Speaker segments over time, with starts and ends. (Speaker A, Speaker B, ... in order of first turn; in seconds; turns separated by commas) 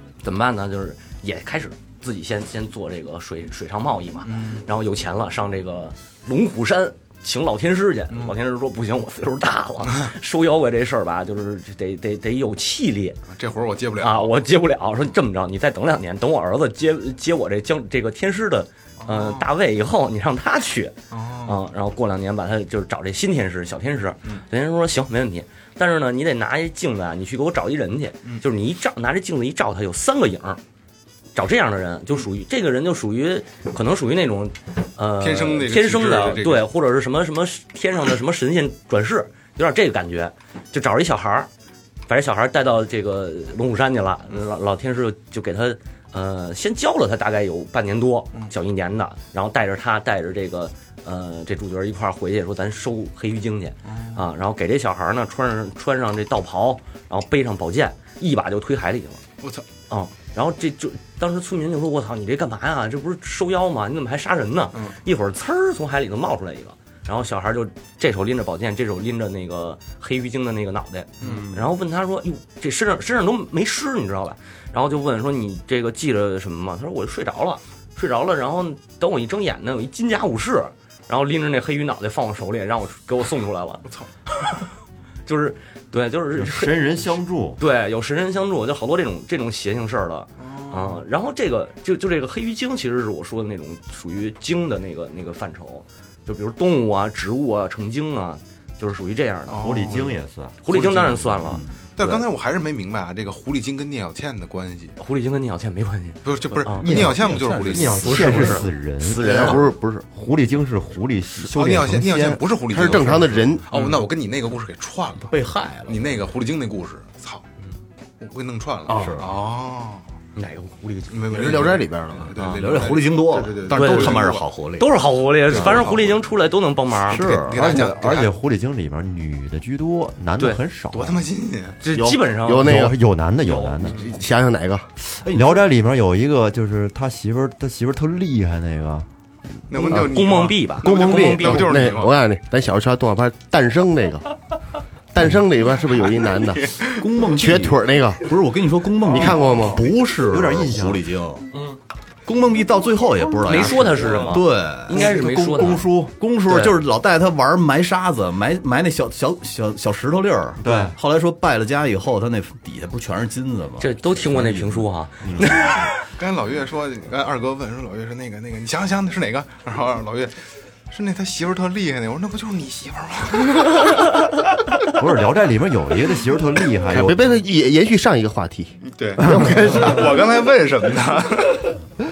Speaker A: 0.2-13.2, Speaker B: 4.3-4.6, Speaker B: 13.3-14.3, Speaker A: 14.0-30.6, Speaker B: 19.0-19.5, Speaker B: 21.1-21.6, Speaker A: 31.3-41.5, Speaker B: 35.2-36.7, Speaker A: 42.1-59.2, Speaker B: 53.9-54.2, Speaker B: 59.4-59.6, Speaker A: 59.9-84.6, Speaker B: 71.2-71.5, Speaker A: 85.2-99.7, Speaker C: 86.3-87.6, Speaker B: 90.4-91.0, Speaker B: 99.5-100.2, Speaker C: 99.6-101.5, Speaker A: 100.6-102.2, Speaker B: 100.7-101.2, Speaker B: 102.0-104.9, Speaker A: 105.0-106.9, Speaker B: 106.2-108.5, Speaker C: 106.8-112.4, Speaker D: 106.8-108.5, Speaker A: 108.0-108.7, Speaker E: 109.0-110.0, Speaker A: 109.2-109.5, Speaker B: 111.5-117.4, Speaker E: 112.6-113.6, Speaker D: 115.2-116.2, Speaker B: 118.2-120.0, Speaker D: 118.9-119.4, Speaker A: 120.3-121.3, Speaker B: 121.1-124.5, Speaker E: 121.3-122.3, Speaker A: 122.4-122.7, Speaker D: 122.4-124.9, Speaker A: 123.7-127.2, Speaker B: 125.5-126.2, Speaker D: 125.5-125.9, Speaker D: 127.1-127.8, Speaker B: 127.1-128.3, Speaker C: 127.2-131.2, Speaker B: 130.9-131.8, Speaker A: 131.8-132.9, Speaker E: 131.9-132.9, Speaker C: 132.5-134.1, Speaker A: 133.4-134.0, Speaker E: 133.9-134.9, Speaker C: 135.2-139.1, Speaker D: 135.2-135.6, Speaker B: 139.7-142.2, Speaker A: 139.8-141.9, Speaker E: 140.8-144.3, Speaker E: 145.1-148.3, Speaker B: 146.5-147.0, Speaker D: 147.0-151.5, Speaker E: 149.1-149.9, Speaker C: 150.1-151.0, Speaker D: 152.2-164.9, Speaker A: 153.4-155.9, Speaker C: 154.9-155.8, Speaker C: 160.6-160.9, Speaker A: 163.8-165.9, Speaker B: 166.0-173.9, Speaker C: 175.0-177.2, Speaker E: 176.9-180.2, Speaker B: 178.8-181.8